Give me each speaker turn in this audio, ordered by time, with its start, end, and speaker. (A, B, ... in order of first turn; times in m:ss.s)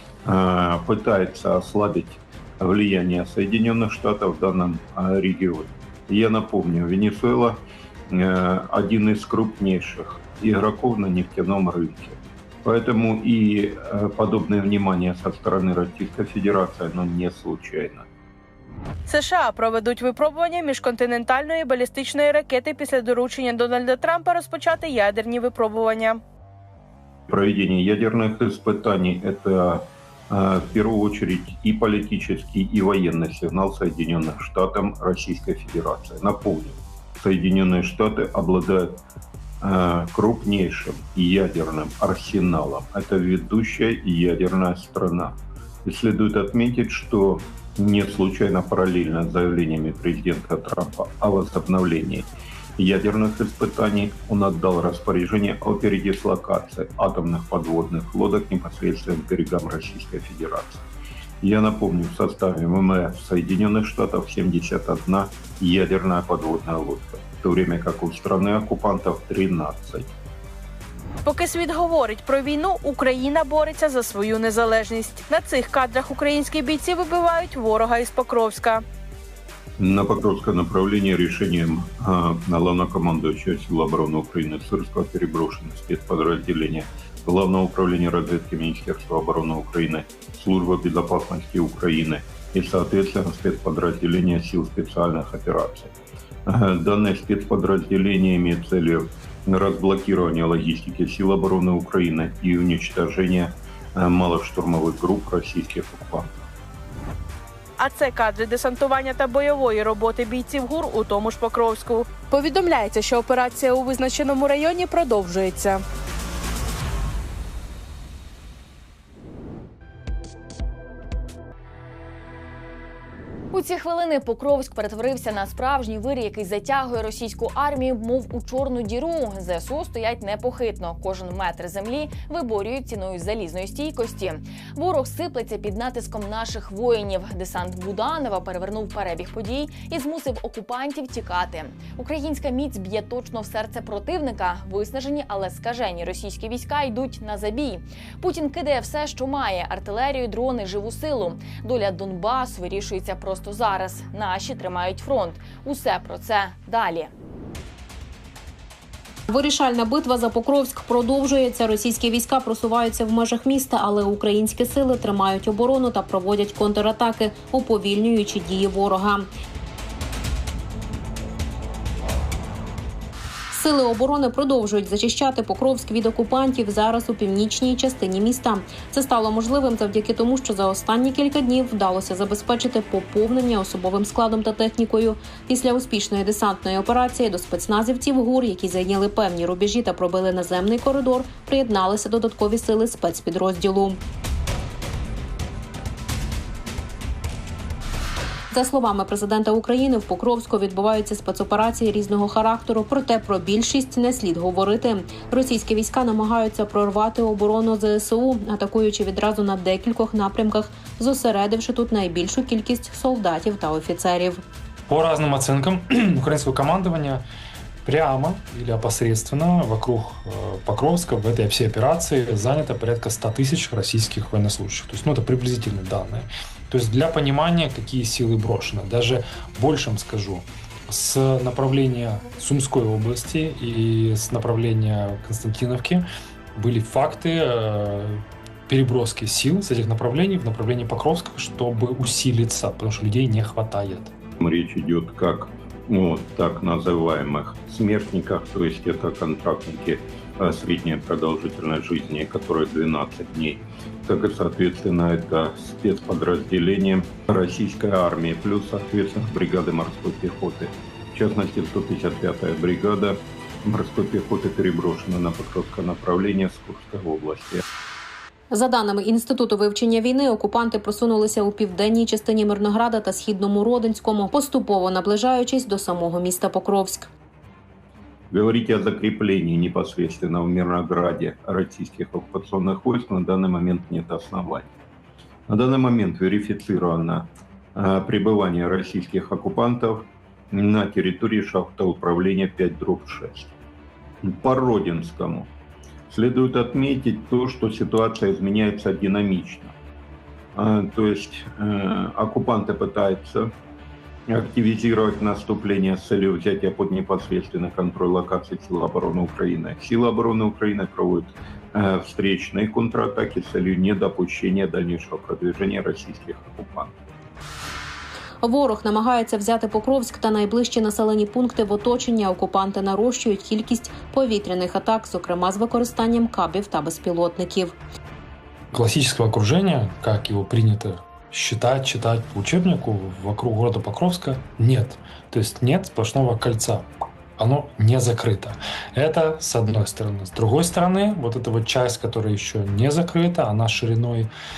0:00.2-0:07.6 A
0:08.1-0:18.0 A
0:19.1-0:26.2 B
0:27.3-0:39.0 A
0:39.6-1:00.8 A
1:01.4-1:10.1 A
1:11.2-1:18.8 B
1:19.8-1:35.9 A
1:36.4-1:46.3 A
1:47.8-1:55.8 B
2:03.5-2:37.1 C
2:39.3-2:49.3 D
2:53.5-3:14.0 D
3:18.5-3:34.4 D
3:34.9-3:37.2 E
3:37.8-3:56.0 E
3:56.5-4:04.1 E
4:04.4-4:27.6 A
4:28.5-4:37.1 D
4:38.3-4:44.7 A
4:45.5-4:53.5 A
4:54.2-4:55.5 A
4:56.1-4:59.7 A
5:00.5-5:03.5 A
5:04.3-5:16.9 A
5:18.4-5:27.8 D
5:28.7-5:44.3 E